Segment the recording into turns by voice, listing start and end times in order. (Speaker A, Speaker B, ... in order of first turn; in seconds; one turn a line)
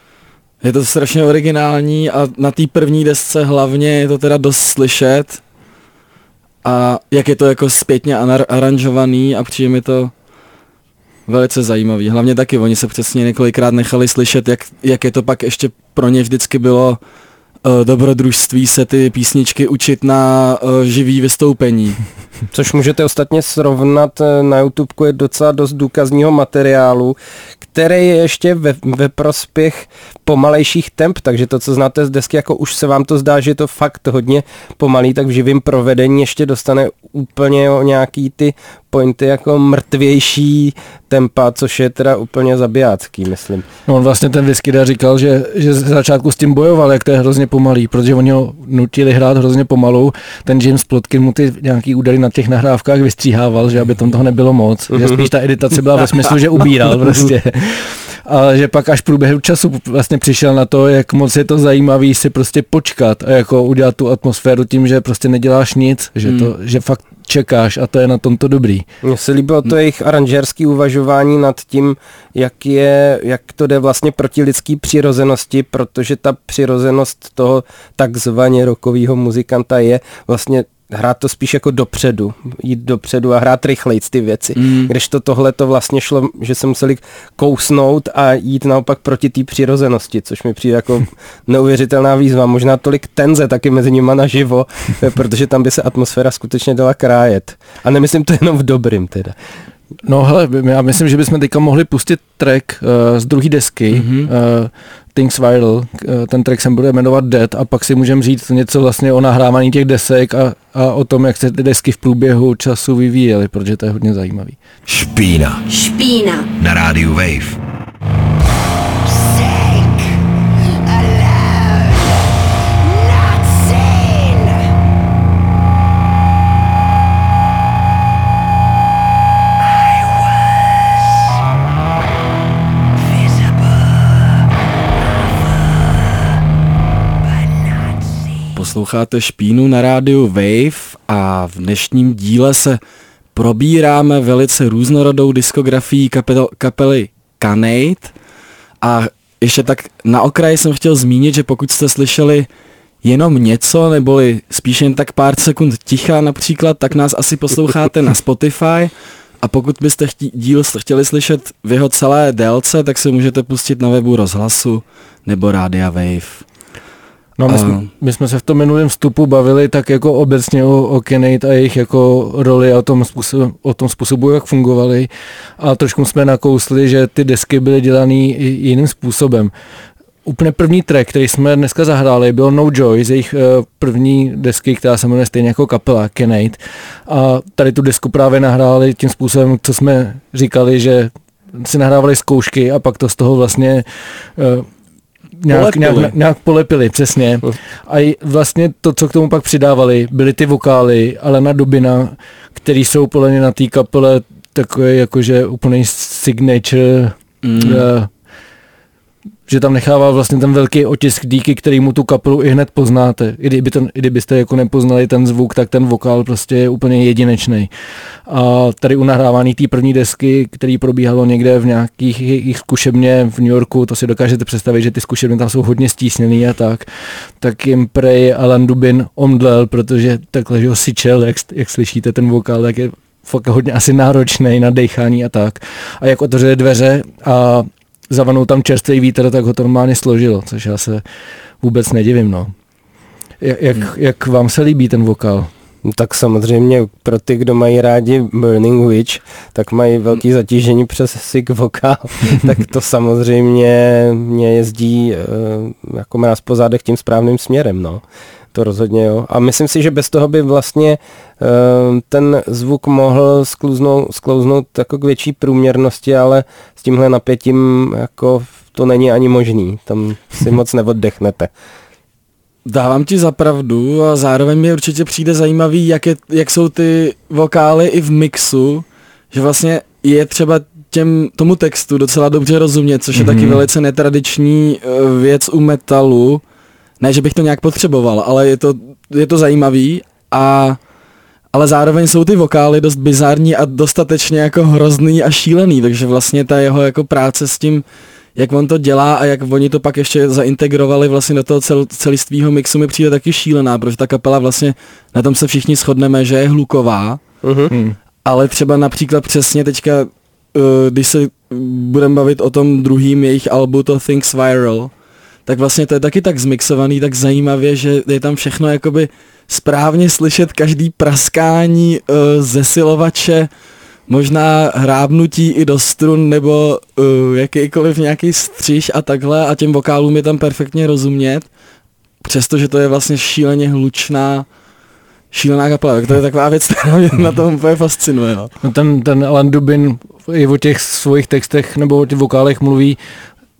Speaker A: 0.6-5.4
Speaker A: 6.6-10.1
Speaker A: 11.3-17.0
Speaker A: 17.6-22.0
Speaker B: 22.5-43.6
Speaker C: 43.9-68.8
Speaker B: 54.9-55.3
Speaker A: 66.2-66.5
Speaker B: 69.0-99.3
Speaker A: 84.5-84.9
Speaker C: 100.0-114.6
Speaker A: 103.9-104.3
Speaker D: 114.9-115.8
Speaker E: 115.9-116.4
Speaker D: 116.4-117.6
Speaker E: 119.1-120.2
Speaker E: 120.9-122.1
Speaker E: 122.9-124.6
Speaker E: 133.2-133.6
Speaker A: 138.5-142.8
Speaker A: 143.3-148.1
Speaker A: 148.8-152.5
Speaker A: 153.0-158.9
Speaker A: 159.4-166.4
Speaker C: 167.4-179.5
Speaker A: 167.5-167.9
Speaker C: 180.2-193.8
Speaker C: 194.3-194.7
Speaker C: 195.4-208.1
Speaker A: 195.5-196.1
Speaker A: 207.4-207.9
Speaker C: 209.5-217.7
Speaker C: 218.2-226.8
Speaker C: 227.4-241.0
Speaker C: 241.6-242.5
Speaker C: 243.4-245.5
Speaker B: 245.8-271.5
Speaker A: 272.6-286.4
Speaker C: 283.1-283.6
Speaker A: 287.0-290.8
Speaker A: 291.5-297.8
Speaker A: 298.4-307.2
Speaker B: 307.4-307.7
Speaker C: 307.7-307.9
Speaker A: 308.2-314.9
Speaker A: 315.4-323.5
Speaker A: 324.1-331.5
Speaker A: 332.2-334.4
Speaker A: 335.3-338.5
Speaker C: 338.6-343.0